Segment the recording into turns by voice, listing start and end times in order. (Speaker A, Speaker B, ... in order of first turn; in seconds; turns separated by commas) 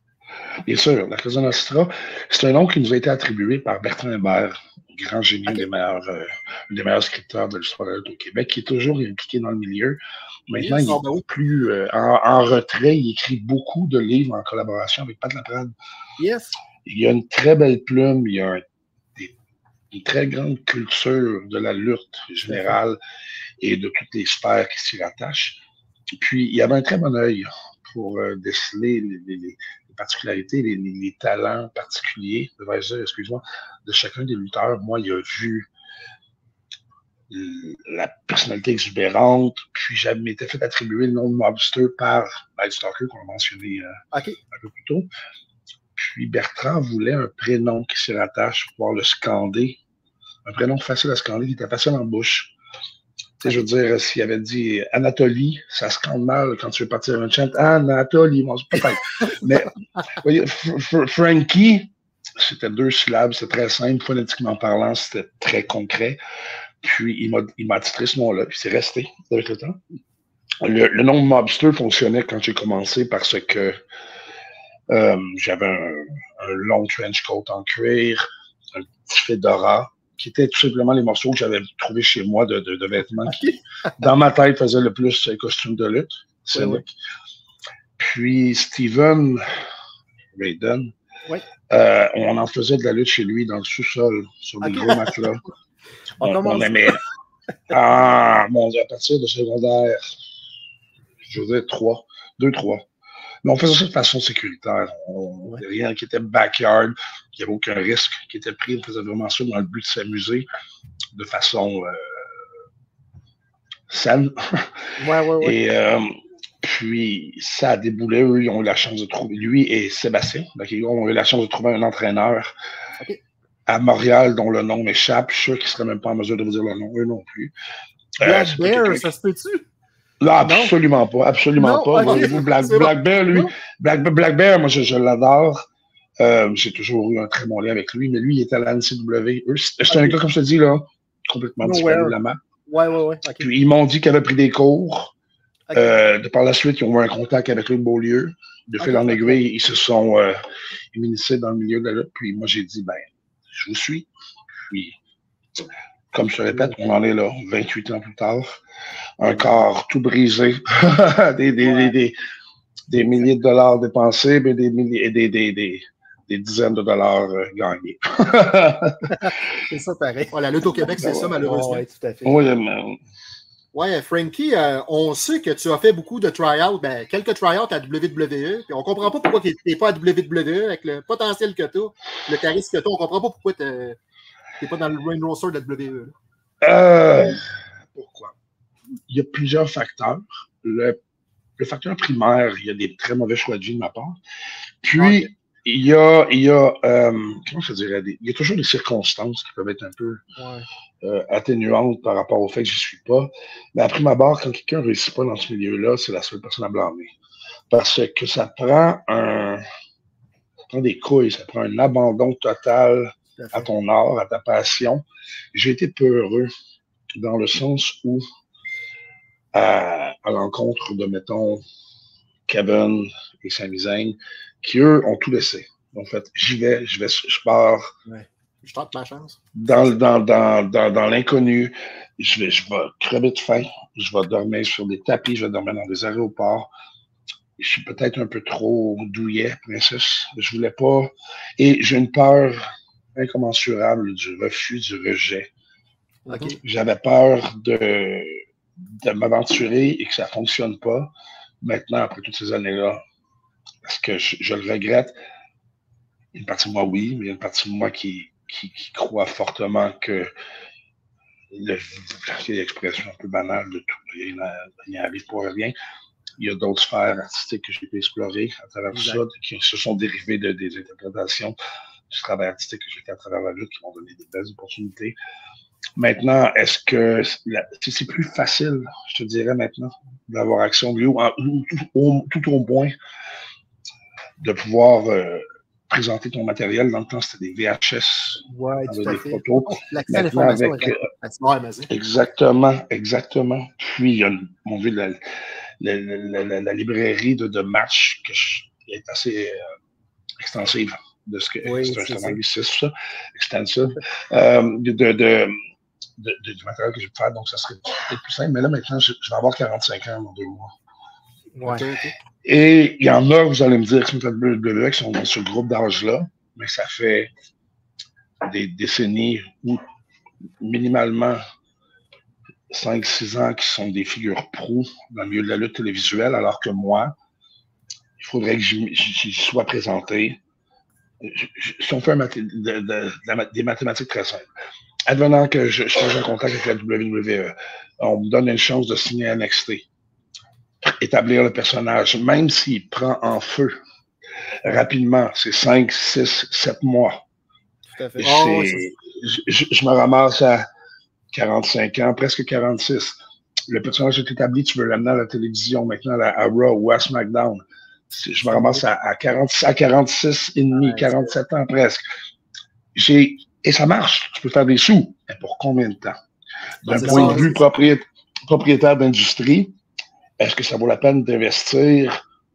Speaker A: 0.7-15.7, Speaker B: 10.5-11.2, Speaker C: 16.2-16.6, Speaker A: 16.9-18.6, Speaker A: 19.9-23.0, Speaker C: 22.5-22.8, Speaker A: 23.6-25.6, Speaker A: 26.2-35.7, Speaker A: 37.3-44.0, Speaker C: 44.1-44.4, Speaker A: 44.5-45.1, Speaker A: 46.0-49.8, Speaker A: 50.5-52.5, Speaker A: 53.4-66.2, Speaker A: 66.8-69.8, Speaker A: 70.6-73.8, Speaker A: 74.9-78.2, Speaker A: 78.7-83.4, Speaker C: 83.3-83.6, Speaker A: 84.0-86.9, Speaker C: 86.5-86.8, Speaker A: 88.0-89.5, Speaker A: 90.3-90.9, Speaker A: 91.7-95.4, Speaker C: 94.6-95.1, Speaker C: 96.2-96.9, Speaker A: 96.2-97.0, Speaker A: 97.7-100.2, Speaker A: 101.2-102.8, Speaker A: 103.4-110.5, Speaker A: 111.2-112.2, Speaker A: 113.9-114.8, Speaker C: 115.0-115.6, Speaker A: 115.4-122.5, Speaker A: 123.7-127.5, Speaker A: 128.2-129.1, Speaker C: 128.2-129.7, Speaker A: 130.2-135.6, Speaker C: 130.4-130.7, Speaker C: 131.6-132.4, Speaker B: 132.0-132.9, Speaker A: 136.2-142.4, Speaker C: 139.9-140.2, Speaker C: 141.6-142.2, Speaker C: 142.7-143.5, Speaker A: 143.4-145.1, Speaker C: 145.7-146.0, Speaker A: 145.7-150.4, Speaker C: 148.8-149.4, Speaker A: 150.9-154.1, Speaker A: 154.7-155.0, Speaker A: 156.1-158.6, Speaker A: 159.2-162.2, Speaker C: 159.3-159.6, Speaker C: 161.6-161.9, Speaker A: 162.9-169.3, Speaker C: 169.1-172.4, Speaker B: 170.3-171.8, Speaker A: 171.0-171.4, Speaker A: 172.2-173.0, Speaker B: 173.7-184.0, Speaker B: 184.6-186.2, Speaker A: 186.6-188.3, Speaker A: 189.1-191.0, Speaker A: 191.6-194.2, Speaker A: 194.8-200.2, Speaker C: 195.0-195.2, Speaker C: 200.4-200.7, Speaker A: 201.0-207.1, Speaker A: 207.7-209.6, Speaker A: 210.7-216.5, Speaker C: 213.4-213.7, Speaker A: 217.2-218.2, Speaker A: 219.5-221.6, Speaker A: 222.5-227.9, Speaker B: 228.6-229.4, Speaker A: 229.6-236.7, Speaker A: 237.6-242.6, Speaker A: 243.2-245.5, Speaker C: 246.3-246.6, Speaker A: 246.6-251.1, Speaker A: 251.6-253.0, Speaker A: 253.8-255.2, Speaker A: 256.3-260.3, Speaker A: 261.5-265.7, Speaker A: 266.4-271.6, Speaker C: 268.9-269.2, Speaker A: 272.1-275.2, Speaker A: 276.0-282.9, Speaker A: 284.4-291.1, Speaker C: 288.5-291.0, Speaker B: 291.3-291.9, Speaker A: 291.9-295.2, Speaker A: 295.8-299.7, Speaker A: 300.4-305.6, Speaker C: 301.6-302.4, Speaker A: 306.2-310.7, Speaker C: 311.6-311.9, Speaker B: 311.6-312.1, Speaker A: 312.4-317.3, Speaker A: 318.4-319.8, Speaker A: 320.6-321.4, Speaker A: 322.7-327.1, Speaker A: 328.2-330.4, Speaker A: 331.2-334.5, Speaker A: 335.1-339.9, Speaker A: 340.8-343.8, Speaker A: 344.6-347.2, Speaker C: 347.9-348.7, Speaker A: 348.2-350.7, Speaker B: 348.2-348.8, Speaker A: 351.3-353.2, Speaker A: 353.7-362.0, Speaker C: 358.5-358.8, Speaker C: 360.8-361.3, Speaker A: 362.9-366.2, Speaker A: 366.8-369.7, Speaker B: 366.9-367.6, Speaker C: 367.0-367.6, Speaker A: 370.4-372.2